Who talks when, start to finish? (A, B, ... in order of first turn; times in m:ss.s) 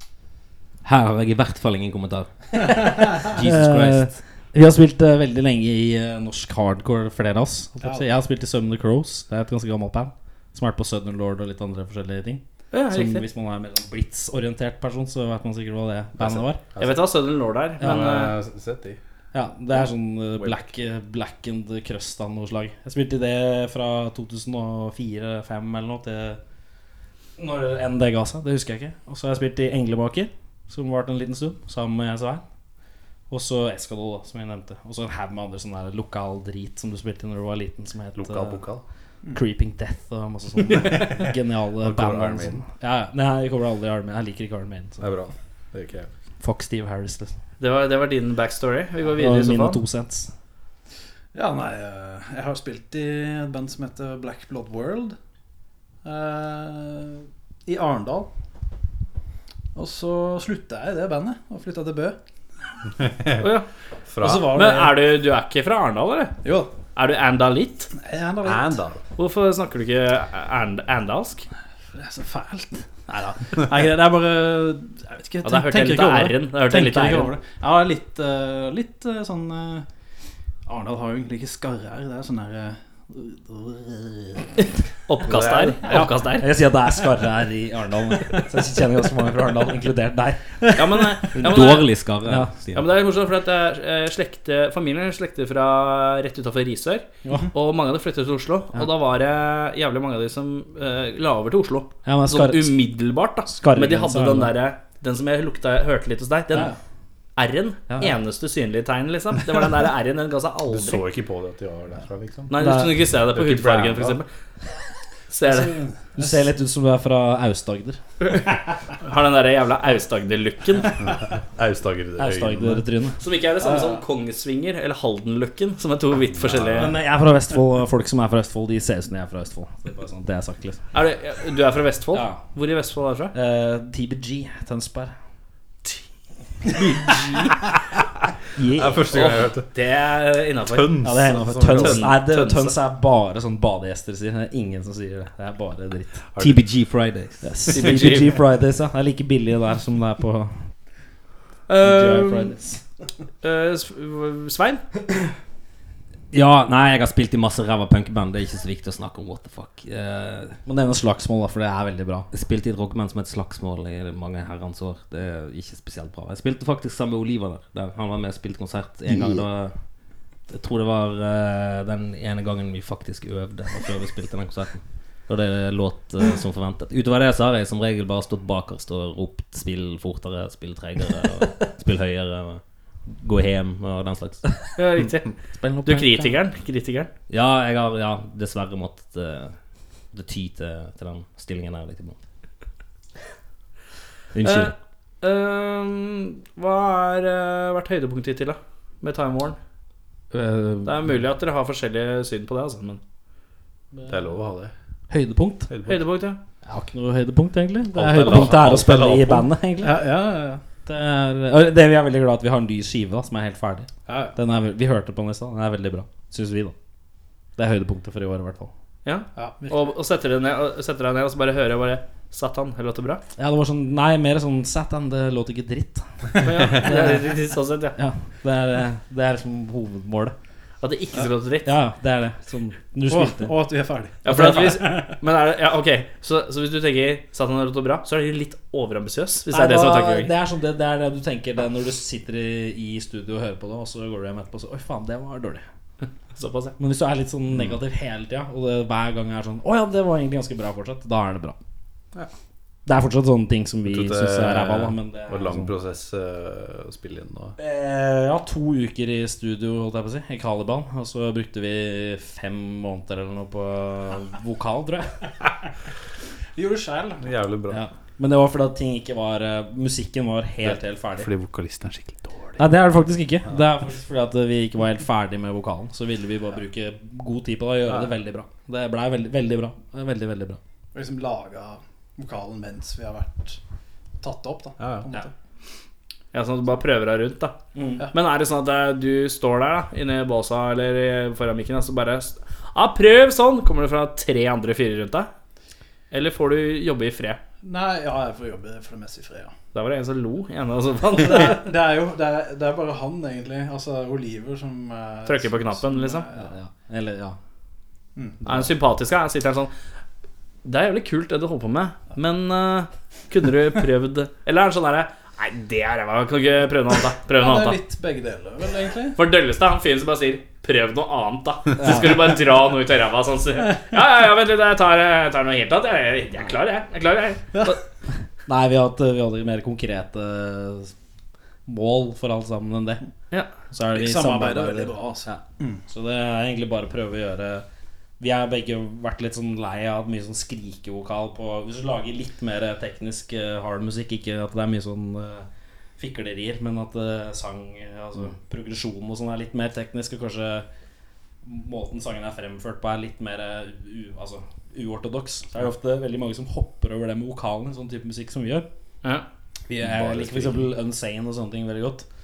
0:00.8-0:04.2 A
0:02.6-0:16.6 B
0:12.7-0:13.2 C
0:16.2-0:17.0 D
0:16.8-0:18.3 C
0:17.8-0:19.0 D
0:17.8-0:18.2 B
0:19.3-0:26.4 B
0:27.4-0:32.4 B
0:33.3-0:38.6 B
0:38.2-0:38.8 D
0:39.3-0:45.1 B
0:40.7-0:41.2 D
0:41.8-0:42.6 D
0:45.0-0:46.1 D
0:46.4-0:47.3 B
0:47.6-0:49.8 C
0:49.2-0:50.3 B
0:51.3-0:55.2 E
0:56.0-0:58.3 E
0:59.7-1:02.2 E
1:03.4-1:03.7 C
1:04.1-1:04.5 D
1:04.2-1:05.0 E
1:04.2-1:06.4 C
1:06.4-1:06.7 E
1:07.0-1:07.9 C
1:07.9-1:08.8 E
1:08.4-1:09.0 D
1:09.2-1:11.4 C
1:11.9-1:19.9 E
1:15.4-1:17.3 C
1:20.6-1:24.5 E
1:25.0-1:26.5 C
1:25.3-1:25.8 D
1:25.9-1:31.0 B
1:30.8-1:31.9 C
1:31.3-1:32.9 A
1:32.2-1:32.5 B
1:32.7-1:46.7 C
1:42.0-1:42.8 B
1:43.6-1:44.5 B
1:47.4-1:51.0 C
1:47.9-1:48.1 B
1:50.7-1:52.5 D
1:52.5-1:54.3 C
1:52.6-1:53.0 B
1:53.2-1:54.2 D
1:55.3-1:55.8 C
1:55.4-1:56.4 E
1:56.2-1:58.0 B
1:59.0-2:01.0 C
2:01.0-2:02.8 D
2:02.2-2:03.2 B
2:03.2-2:06.9 C
2:03.6-2:04.0 E
2:06.3-2:06.9 D
2:06.7-2:10.8 B
2:10.9-2:13.3 C
2:12.1-2:12.4 B
2:13.3-2:15.1 B
2:16.9-2:17.6 C
2:18.6-2:19.0 B
2:18.7-2:19.7 D
2:19.1-2:22.8 C
2:20.7-2:22.1 D
2:21.0-2:26.2 B
2:26.3-2:26.6 D
2:26.4-2:27.7 A
2:27.4-2:30.7 B
2:27.7-2:28.3 C
2:27.9-2:28.2 D
2:31.7-2:32.5 C
2:31.8-2:32.8 B
2:33.4-2:34.8 C
2:36.3-2:40.6 A
2:40.6-2:42.3 B
2:42.3-2:49.8 A
2:50.5-3:04.4 A
3:04.8-3:05.3 C
3:05.5-3:06.4 B
3:05.8-3:07.1 C
3:07.3-3:09.6 A
3:10.1-3:12.2 A
3:14.3-3:14.7 A
3:14.4-3:19.6 C
3:20.3-3:21.2 B
3:20.8-3:23.0 C
3:24.1-3:24.7 D
3:25.1-3:25.7 B
3:25.7-3:26.0 D
3:25.8-3:26.4 C
3:26.6-3:30.0 B
3:27.9-3:29.4 D
3:29.8-3:30.6 E
3:30.8-3:36.7 B
3:34.1-3:34.4 E
3:37.6-3:38.7 B
3:39.0-3:43.2 C
3:39.4-3:39.9 E
3:43.4-3:47.4 B
3:46.4-3:48.0 C
3:48.0-3:50.3 B
3:50.8-3:51.7 C
3:51.6-3:53.6 B
3:53.1-3:55.2 E
3:54.2-4:00.3 C
3:54.3-3:54.8 B
3:59.5-4:05.6 B
4:06.3-4:06.7 C
4:06.8-4:11.6 B
4:12.8-4:15.7 B
4:13.8-4:17.6 D
4:17.6-4:25.2 B
4:26.6-4:27.3 E
4:27.2-4:27.8 D
4:27.7-4:31.3 B
4:30.6-4:32.6 D
4:32.6-4:40.6 B
4:40.9-4:43.6 E
4:44.2-4:45.3 E
4:44.8-4:45.0 D
4:46.3-4:47.6 C
4:47.7-4:48.1 B
4:48.1-4:55.3 C
4:56.1-4:57.4 C
4:57.6-4:59.5 E
4:59.7-5:01.7 C
5:01.2-5:06.5 E
5:05.2-5:06.2 C
5:06.3-5:07.4 B
5:08.2-5:08.6 E
5:08.4-5:09.7 C
5:10.6-5:17.8 C
5:17.3-5:19.2 E
5:19.1-5:27.8 C
5:21.8-5:22.3 B
5:28.4-5:30.9 B
5:31.7-5:33.0 B
5:33.7-5:37.6 B
5:33.9-5:35.8 E
5:38.2-5:45.5 B
5:46.0-5:50.6 B
5:51.4-5:58.6 B
5:59.7-6:02.0 B
5:59.7-6:00.6 D